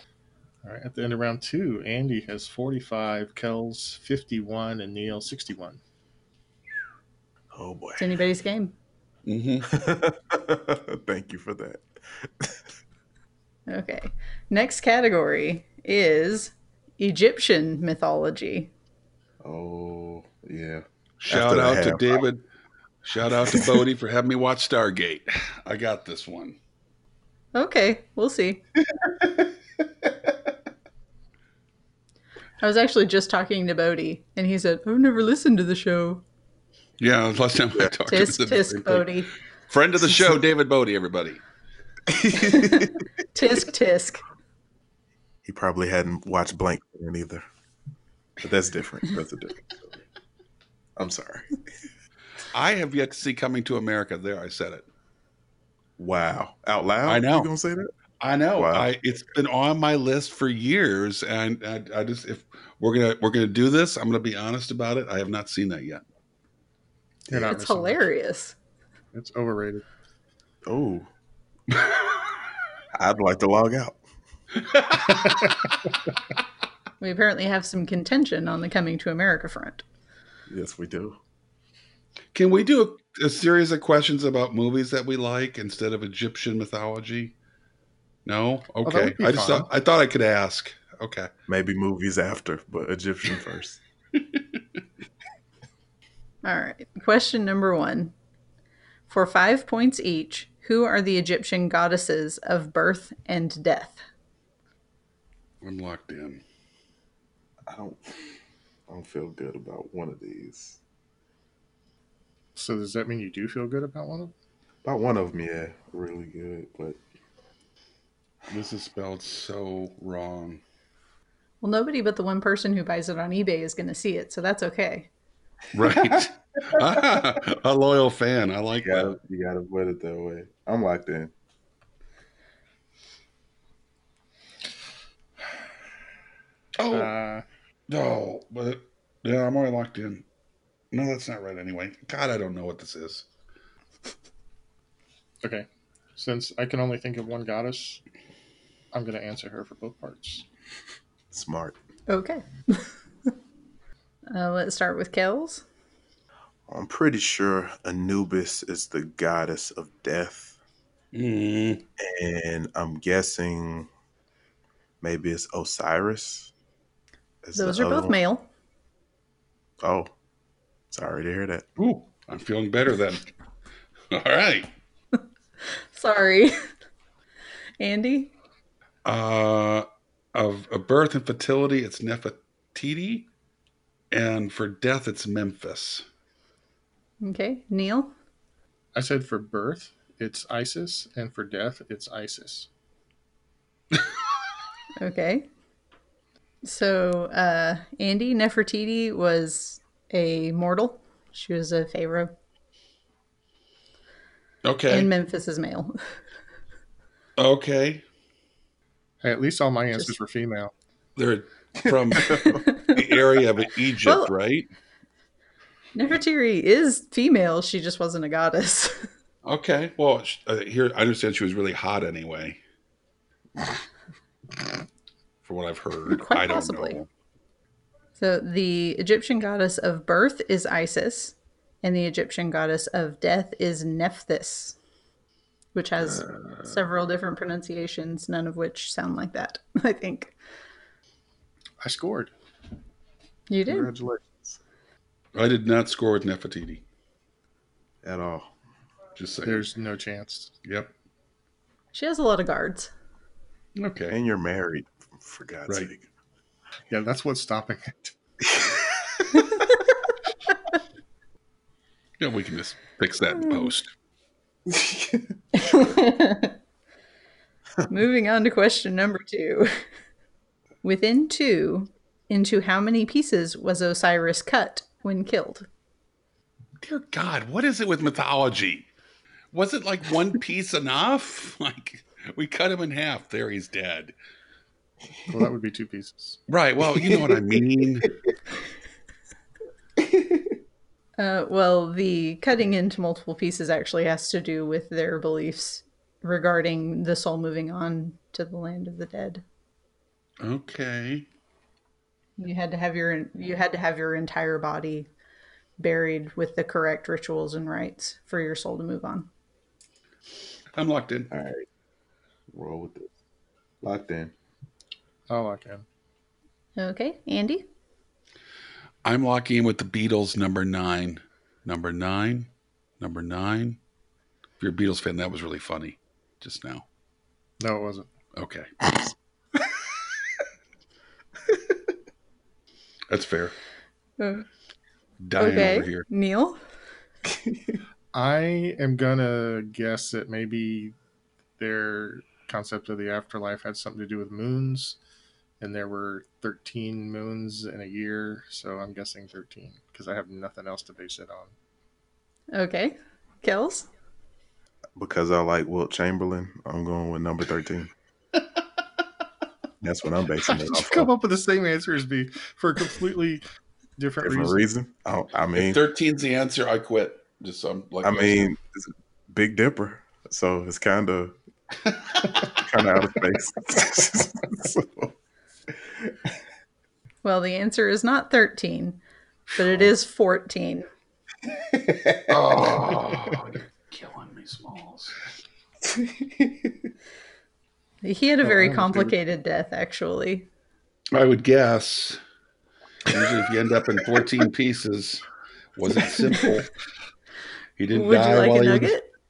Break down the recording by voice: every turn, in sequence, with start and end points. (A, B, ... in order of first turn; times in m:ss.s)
0:00.6-0:05.8 A
0:07.5-0:08.0 B
0:08.0-0:08.8 C
0:09.3-0:09.7 D
0:09.7-0:12.6 B
0:13.7-0:18.7 C
0:19.4-0:22.2 B
0:21.2-0:22.4 D
0:23.0-0:26.6 D
0:23.5-0:23.8 B
0:27.6-0:28.6 C
0:29.0-0:29.4 B
0:32.6-0:36.2 C
0:37.0-0:39.1 D
0:38.1-0:39.3 C
0:39.7-0:41.4 D
0:42.1-0:42.9 B
0:43.3-0:44.2 C
0:45.4-0:47.4 B
0:48.4-0:50.0 B
0:51.0-0:51.5 B
0:52.5-0:54.9 D
0:56.0-0:57.9 B
0:57.1-0:57.5 D
0:58.2-1:06.0 D
0:58.6-0:58.9 B
1:07.3-1:08.1 A
1:07.4-1:08.6 C
1:09.1-1:09.8 A
1:10.7-1:11.1 B
1:13.0-1:14.0 B
1:14.6-1:15.6 D
1:17.0-1:19.8 C
1:20.5-1:21.2 B
1:22.3-1:27.3 D
1:28.3-1:31.3 D
1:28.8-1:29.7 A
1:31.5-1:33.8 B
1:36.4-1:38.1 C
1:39.1-1:44.0 C
1:45.6-1:46.4 D
1:47.7-1:48.1 B
1:48.9-1:50.8 B
1:52.6-1:54.3 A
1:54.8-1:57.0 B
1:58.5-2:00.6 D
2:01.6-2:05.1 C
2:05.7-2:09.2 D
2:05.9-2:07.2 B
2:08.8-2:11.3 B
2:16.8-2:17.1 D
2:16.9-2:17.4 A
2:17.9-2:20.2 D
2:20.9-2:23.2 D
2:25.4-2:28.0 A
2:28.9-2:30.4 A
2:31.3-2:31.8 B
2:32.1-2:32.9 C
2:34.3-2:35.6 C
2:36.7-2:40.6 B
2:41.1-2:41.8 D
2:42.0-2:43.9 B
2:45.0-2:46.5 B
2:47.4-2:48.2 B
2:47.6-2:48.5 C
2:49.8-2:50.1 B
2:50.9-2:51.7 B
2:51.8-2:53.3 D
2:54.1-2:54.7 D
2:55.9-2:56.6 C
2:57.8-2:58.3 C
2:59.0-3:03.3 D
3:04.1-3:06.0 D
3:07.2-3:08.1 C
3:09.0-3:12.7 A
3:15.0-3:15.5 C
3:16.6-3:22.3 C
3:24.6-3:25.1 D
3:24.9-3:26.0 C
3:27.4-3:28.0 D
3:29.2-3:30.7 A
3:31.2-3:34.7 D
3:32.3-3:32.6 B
3:32.5-3:33.0 C
3:34.0-3:34.3 C
3:36.0-3:39.1 C
3:39.4-3:42.6 D
3:45.4-3:47.1 D
3:46.1-3:47.0 C
3:48.2-3:54.8 C
3:55.7-4:00.4 C
3:56.0-3:56.8 D
4:01.8-4:02.3 A
4:03.5-4:03.9 C
4:03.7-4:04.6 B
4:05.4-4:06.8 D
4:08.0-4:08.5 B
4:09.2-4:09.7 D
4:09.4-4:10.5 A
4:10.6-4:10.9 D
4:11.9-4:12.9 C
4:13.8-4:14.2 D
4:14.1-4:16.0 B
4:16.9-4:18.1 A
4:22.2-4:23.9 D
4:23.4-4:23.7 C
4:24.7-4:25.3 B
4:25.6-4:26.6 C
4:27.9-4:29.7 C
4:30.8-4:35.7 C
4:36.8-4:38.9 D
4:39.5-4:44.1 D
4:45.3-4:46.4 A
4:46.5-4:48.2 D
4:51.2-4:59.4 C
5:00.4-5:01.3 D
5:02.4-5:05.1 C
5:05.8-5:09.3 C
5:10.8-5:11.3 D
5:11.3-5:11.7 B
5:12.5-5:13.1 B
5:13.8-5:14.3 B
5:15.3-5:15.8 A
5:16.8-5:17.6 C
5:19.0-5:22.5 D
5:23.0-5:23.8 D
5:24.6-5:26.8 D
5:27.6-5:28.1 A
5:28.4-5:29.0 D
5:33.1-5:33.6 D
5:34.2-5:34.5 C
5:35.2-5:36.1 D
5:35.4-5:36.6 C
5:37.3-5:37.7 B
5:38.1-5:41.0 A
5:41.6-5:45.0 A
5:45.6-5:51.5 A
5:52.5-5:53.9 C
5:55.0-5:57.9 B
5:59.8-6:01.1 B
6:00.5-6:03.4 A
6:04.0-6:04.6 A
6:04.2-6:05.8 B
6:05.6-6:08.5 D
6:08.0-6:11.4 B
6:12.3-6:15.1 B
6:17.2-6:19.0 C
6:19.5-6:20.9 C
6:21.7-6:22.4 B
6:22.3-6:25.2 D
6:25.9-6:26.7 B
6:28.0-6:30.5 C
6:28.4-6:29.1 A
6:31.1-6:32.2 D
6:33.1-6:35.2 D
6:35.8-6:36.7 D
6:37.8-6:38.9 D
6:37.9-6:39.1 C